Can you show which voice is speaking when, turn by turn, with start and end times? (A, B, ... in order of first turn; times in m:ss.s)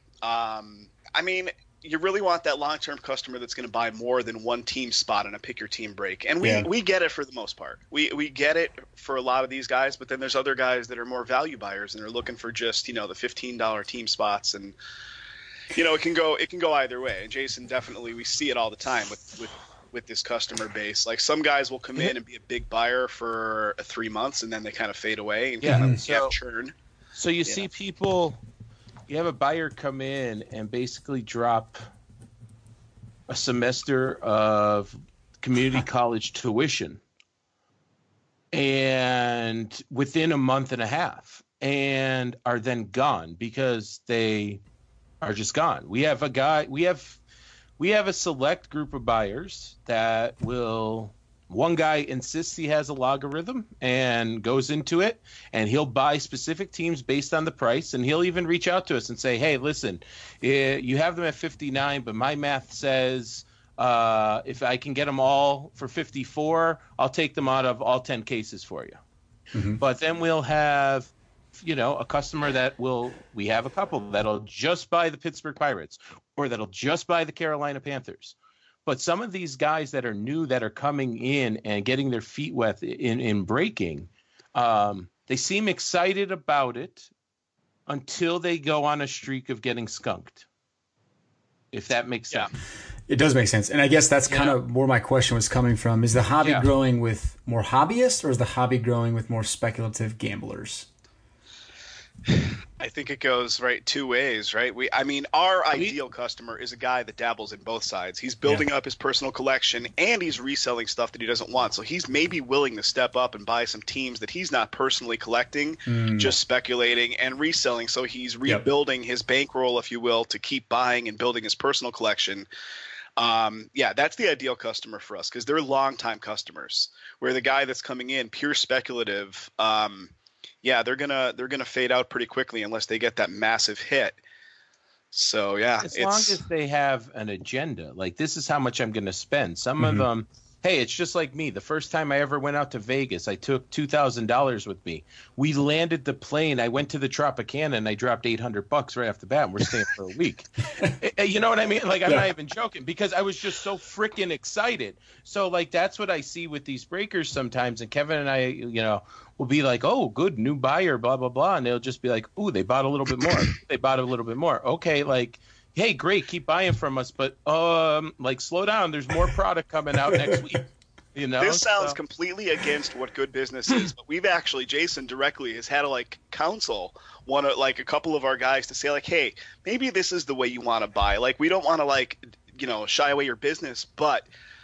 0:00.2-0:14.8 A
0:06.4-0:06.7 B
0:15.7-0:26.7 A
0:25.6-0:26.3 C
0:25.7-0:26.0 B
0:27.1-0:28.4 C
0:29.1-0:31.8 C
0:33.3-0:37.0 C
0:38.5-0:44.6 C
0:45.2-0:47.2 C
0:47.8-1:09.0 C
1:09.5-1:09.8 B
1:09.8-1:27.1 C
1:27.9-1:30.4 C
1:31.7-1:32.5 C
1:33.1-1:40.9 B
1:34.3-1:34.6 C
1:36.4-1:36.7 C
1:42.8-2:02.5 A
1:55.9-1:56.4 B
2:03.2-2:14.2 A
2:15.1-2:16.4 A
2:15.8-2:52.0 C
2:19.8-2:20.0 B
2:50.1-2:50.4 B
2:51.4-3:04.3 A